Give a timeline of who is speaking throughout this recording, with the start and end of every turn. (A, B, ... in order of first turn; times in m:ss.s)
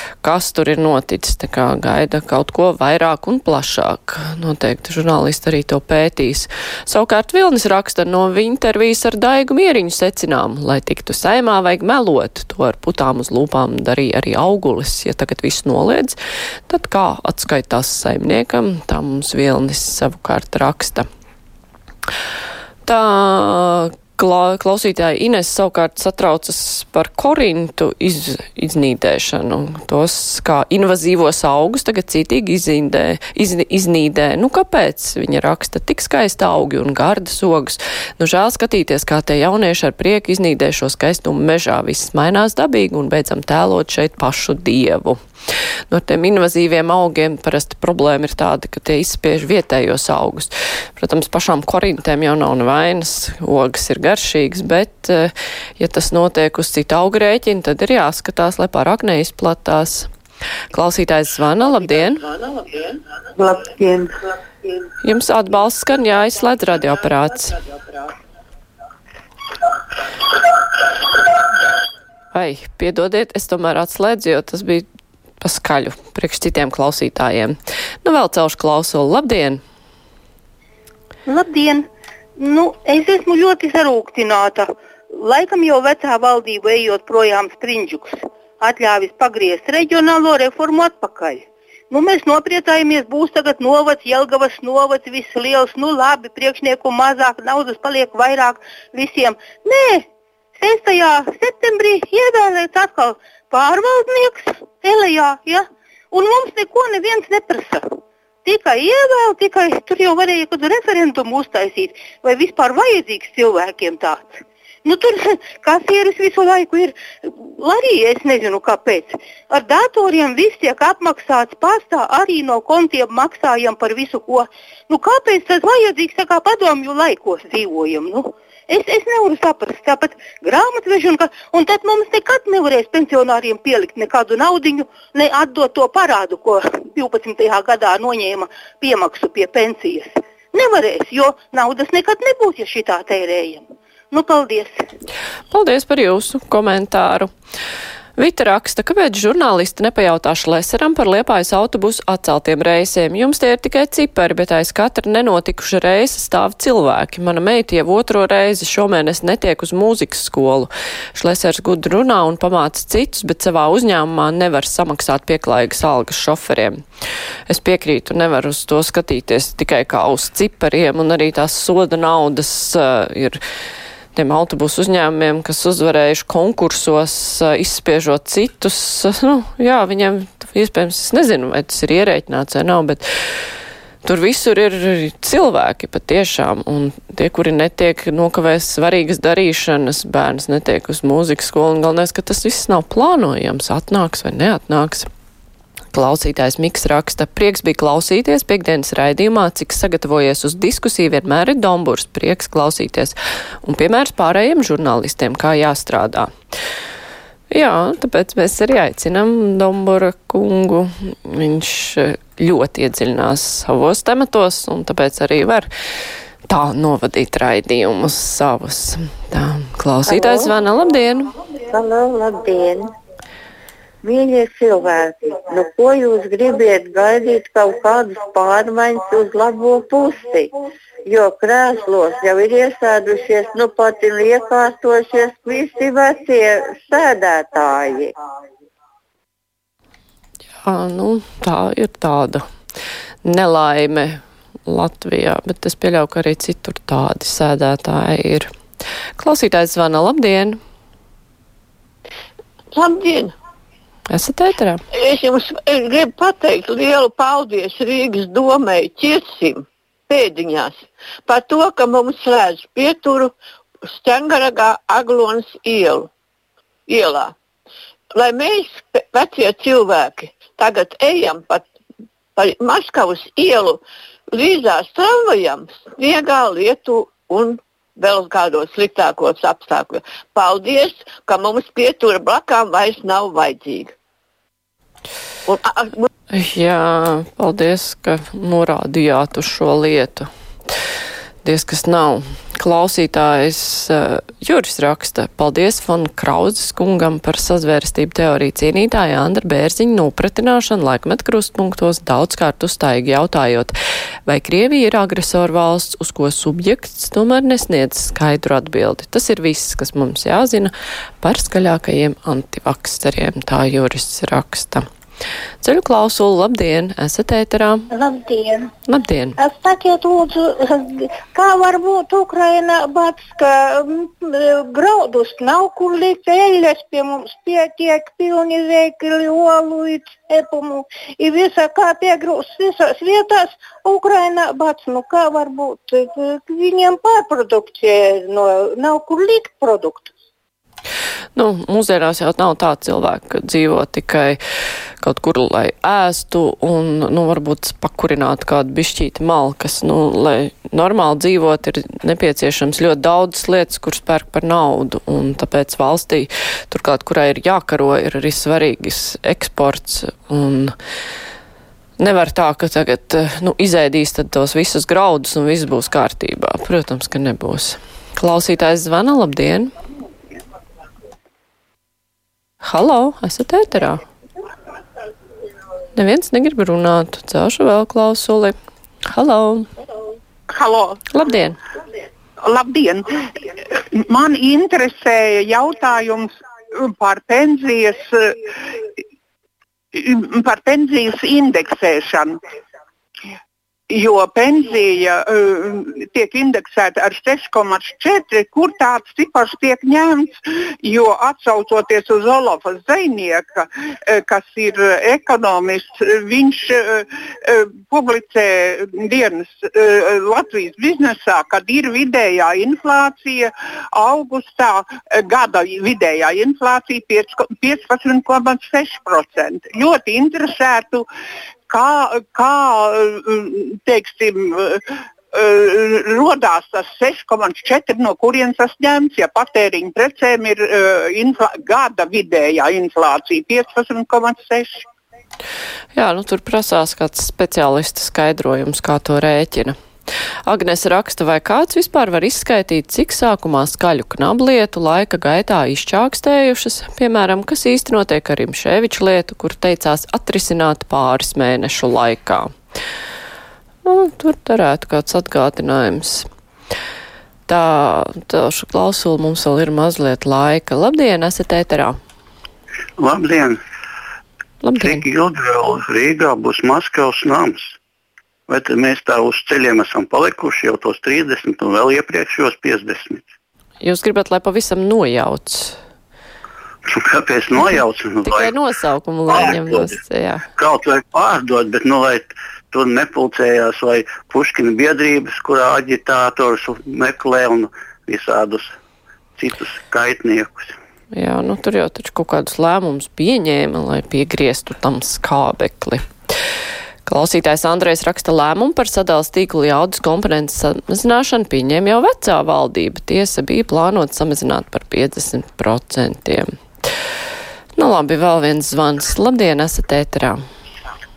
0:00.2-0:16.2 A
0:16.7-0:21.0 A
0:22.9-0:45.2 A
0:45.9-1:00.1 A
1:00.7-1:02.3 A
1:03.4-1:04.1 B
1:05.0-1:07.6 A
1:12.3-1:14.9 A
1:15.4-1:19.6 A
1:21.3-1:21.8 C
1:22.4-1:40.0 C
1:40.6-1:47.8 C
1:48.4-2:24.8 C
2:25.5-2:27.3 A
2:28.2-2:46.8 A
2:47.5-2:53.4 A
2:54.1-3:03.0 A
3:04.0-3:15.1 A
3:15.9-3:26.3 A
3:27.5-3:35.7 A
3:36.5-3:41.3 A
3:40.1-3:40.5 B
3:41.6-3:42.9 B
3:44.0-3:58.1 B
4:00.6-4:02.4 A
4:03.2-4:08.5 A
4:09.2-4:10.6 A
4:12.7-4:13.4 D
4:14.1-4:14.8 A
4:14.9-4:23.3 D
4:23.9-4:26.1 D
4:26.9-4:27.3 D
4:28.2-4:31.6 D
4:32.4-4:33.8 D
4:34.3-4:43.9 D
4:45.5-4:46.1 D
4:46.3-4:50.3 A
4:51.4-5:03.7 A
5:04.3-5:14.8 A
5:15.6-5:17.9 A
5:17.9-5:18.7 E
5:18.9-5:19.4 A
5:19.4-5:40.1 E
5:41.4-5:44.4 A
5:45.0-6:00.7 A
6:02.0-6:09.7 A
6:12.6-6:14.0 A
6:16.0-6:18.6 A
6:19.1-6:19.7 A
6:20.5-6:21.0 F
6:21.1-6:21.6 A
6:22.4-6:23.1 F
6:23.9-6:26.3 F
6:26.8-6:28.3 F
6:29.9-6:32.4 F
6:33.9-7:01.1 F
7:01.7-7:04.8 F
7:05.3-7:14.8 F
7:15.9-7:19.8 A
7:20.5-7:32.5 A
7:33.8-7:36.3 A
7:37.5-7:42.0 A
7:43.0-7:43.6 G
7:44.6-7:45.0 A
7:44.8-7:47.8 G
7:48.5-7:53.3 G
7:53.8-7:55.8 A
7:56.9-7:58.5 G
7:57.6-8:00.5 A
7:59.3-8:00.0 G
8:00.6-8:08.8 G
8:09.4-8:10.8 G
8:11.1-8:16.0 A
8:17.1-8:26.5 A
8:27.8-8:30.4 A